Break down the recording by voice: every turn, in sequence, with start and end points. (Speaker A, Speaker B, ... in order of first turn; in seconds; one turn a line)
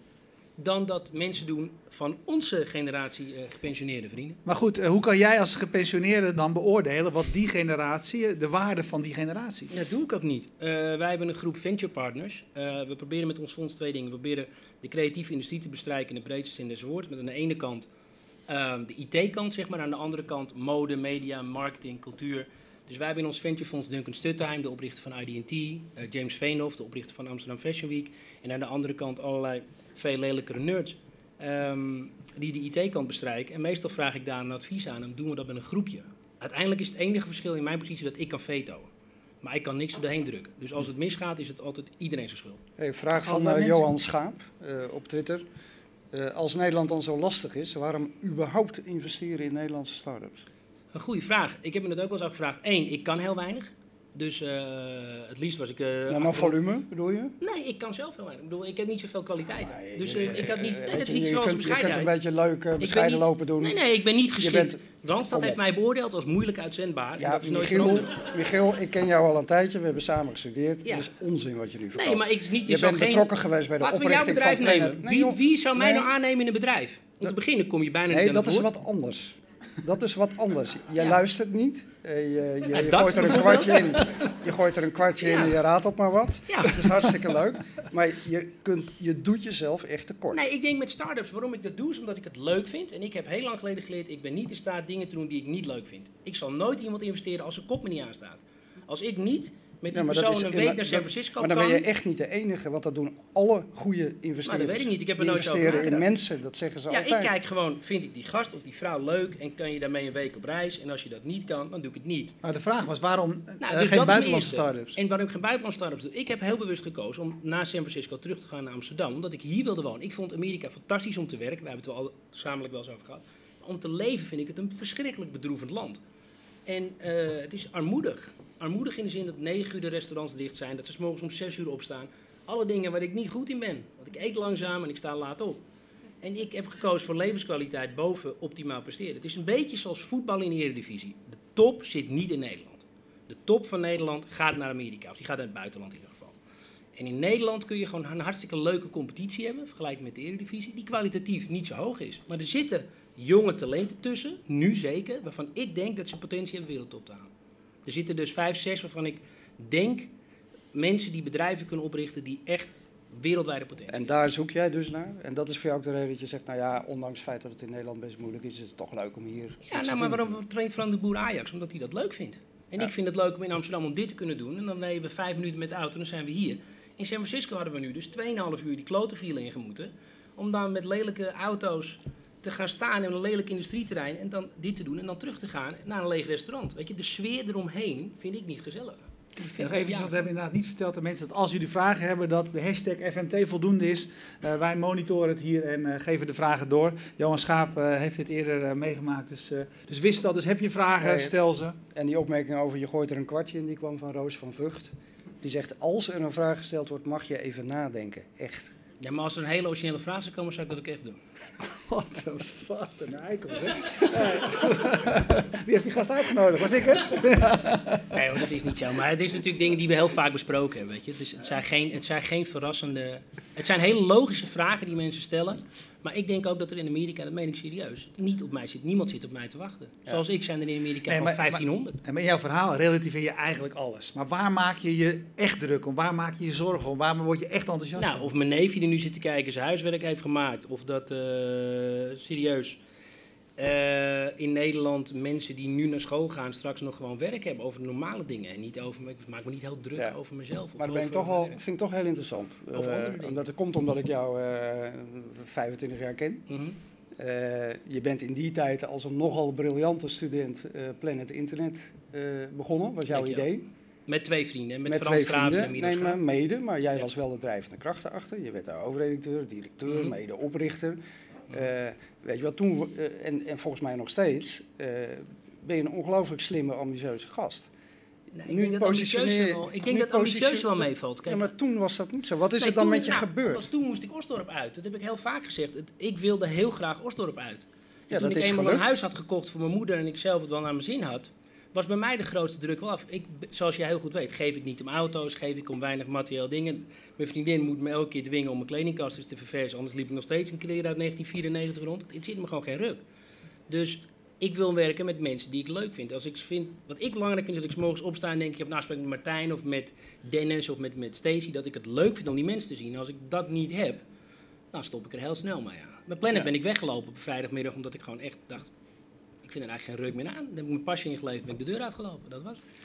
Speaker A: 0.6-4.4
Speaker B: 4.5-9.7
Speaker A: 9.7-17.9
Speaker A: 18.5-38.9
Speaker A: 39.4-42.6
Speaker C: 42.8-45.4
Speaker B: 43.1-43.9
Speaker C: 46.1-50.5
Speaker A: 50.9-56.6
Speaker C: 56.1-57.4
Speaker A: 57.4-62.1
Speaker C: 59.7-63.8
Speaker A: 62.8-68.2
Speaker C: 64.4-65.6
Speaker C: 67.2-76.1
Speaker A: 71.9-78.7
Speaker C: 78.1-90.4
Speaker A: 82.7-84.3
Speaker A: 85.2-85.5
Speaker A: 86.5-87.2
Speaker A: 90.3-101.8
Speaker C: 99.9-107.3
Speaker A: 104.4-106.1
Speaker A: 106.9-112.3
Speaker B: 112.4-115.0
Speaker A: 113.6-126.0
Speaker A: 126.7-135.6
Speaker A: 136.2-146.3
Speaker A: 146.9-157.3
Speaker A: 157.8-160.1
Speaker A: 160.7-164.1
Speaker C: 163.9-170.4
Speaker A: 169.6-190.1
Speaker B: 189.6-201.8
Speaker C: 201.0-201.3
Speaker C: 201.9-204.9
Speaker C: 205.4-208.7
Speaker A: 209.0-211.2
Speaker B: 211.6-218.2
Speaker A: 218.1-232.0
Speaker B: 231.1-238.3
Speaker A: 237.9-242.8
Speaker A: 243.6-251.6
Speaker C: 250.8-256.4
Speaker A: 252.7-253.4
Speaker A: 256.5-256.8
Speaker C: 257.1-263.6
Speaker A: 263.1-263.5
Speaker A: 264.1-266.2
Speaker C: 264.9-271.0
Speaker C: 271.5-277.7
Speaker A: 278.3-281.5
Speaker C: 278.5-283.6
Speaker A: 282.6-303.0
Speaker C: 288.1-288.9
Speaker A: 303.7-314.0
Speaker A: 314.7-318.7
Speaker A: 319.4-322.6